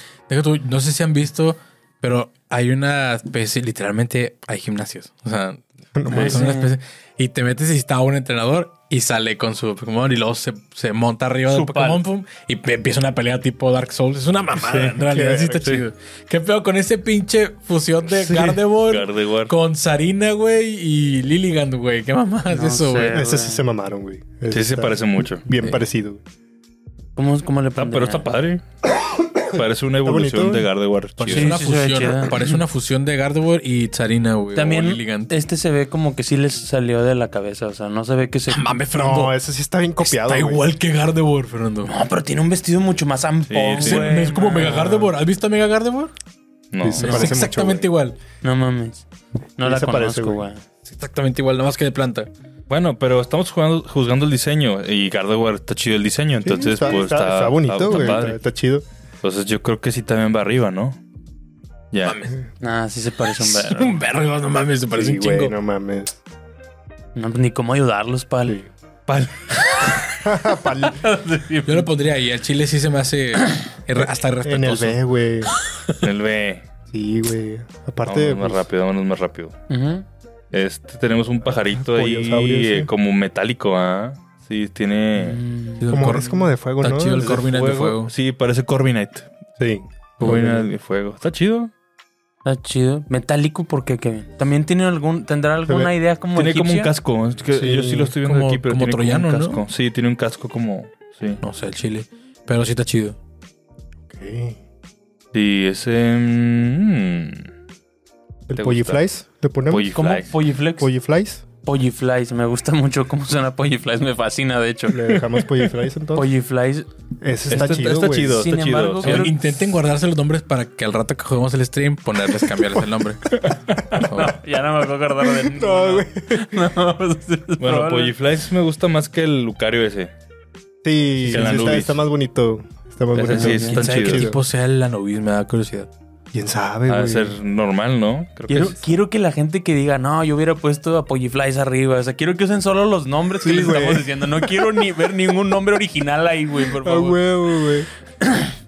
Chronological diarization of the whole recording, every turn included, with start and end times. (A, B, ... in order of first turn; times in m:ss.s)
0:00.3-0:23.1 A
0:06.0-0:06.5 B
0:06.1-0:06.7 C
0:11.5-0:12.0 C
0:14.6-0:15.0 D
0:15.1-0:15.7 B
0:18.1-0:19.5 D
0:22.5-0:23.6 C
0:23.1-0:26.2 B
0:24.5-0:25.4 D
0:27.2-0:28.3 C
0:27.8-0:28.6 D
0:29.4-0:31.6 D
0:29.6-0:30.7 B
0:31.2-0:35.4 A
0:31.3-0:32.6 C
0:34.6-0:38.7 C
0:38.5-0:39.4 A
0:38.9-0:40.6 B
0:40.0-0:41.9 A
0:41.8-0:44.7 C
0:43.5-0:44.3 D
0:43.8-0:46.1 A
0:44.4-0:45.1 B
0:46.7-0:47.4 D
0:46.8-0:47.9 B
0:47.0-0:48.2 A
0:48.4-0:49.0 C
0:49.6-0:50.6 C
0:49.6-0:50.4 B
0:50.8-0:52.3 A
0:52.7-0:58.4 D
0:56.4-0:58.8 B
0:57.9-0:58.2 C
0:59.2-1:01.0 D
1:01.9-1:02.2 D
1:02.0-1:02.4 A
1:02.6-1:04.0 C
1:03.4-1:05.6 A
1:04.9-1:06.2 B
1:07.2-1:08.6 C
1:09.1-1:09.9 D
1:10.2-1:11.1 B
1:11.0-1:11.9 C
1:11.7-1:15.0 A
1:14.0-1:15.5 B
1:16.0-1:16.7 D
1:16.9-1:18.6 B
1:18.1-1:19.5 D
1:19.7-1:20.0 C
1:20.5-1:25.4 D
1:21.7-1:22.9 B
1:25.1-1:26.1 C
1:25.8-1:28.1 A
1:25.9-1:27.5 B
1:27.2-1:29.3 D
1:29.6-1:30.7 B
1:30.2-1:31.7 D
1:32.4-1:36.9 C
1:36.4-1:41.4 D
1:37.5-1:38.2 B
1:38.2-1:39.6 A
1:41.4-1:43.2 A
1:44.1-1:44.6 B
1:45.3-1:47.5 D
1:48.5-1:49.9 B
1:48.5-1:49.0 D
1:49.7-1:50.3 D
1:49.9-1:50.9 C
1:50.8-1:51.4 B
1:51.6-1:55.3 C
1:54.9-1:56.3 B
1:56.1-1:56.9 C
1:57.2-1:58.5 B
1:57.5-1:59.3 D
1:57.5-1:59.5 C
1:59.0-2:03.4 A
2:03.9-2:04.4 A
2:04.0-2:08.2 C
2:05.4-2:06.6 B
2:07.6-2:10.1 D
2:10.8-2:14.4 B
2:11.2-2:12.0 D
2:11.2-2:11.8 A
2:13.1-2:14.3 D
2:13.3-2:13.8 C
2:13.6-2:15.9 A
2:16.3-2:17.4 B
2:16.9-2:18.9 D
2:18.5-2:27.2 C
2:23.4-2:24.6 B
2:26.8-2:27.9 B
2:28.2-2:28.5 C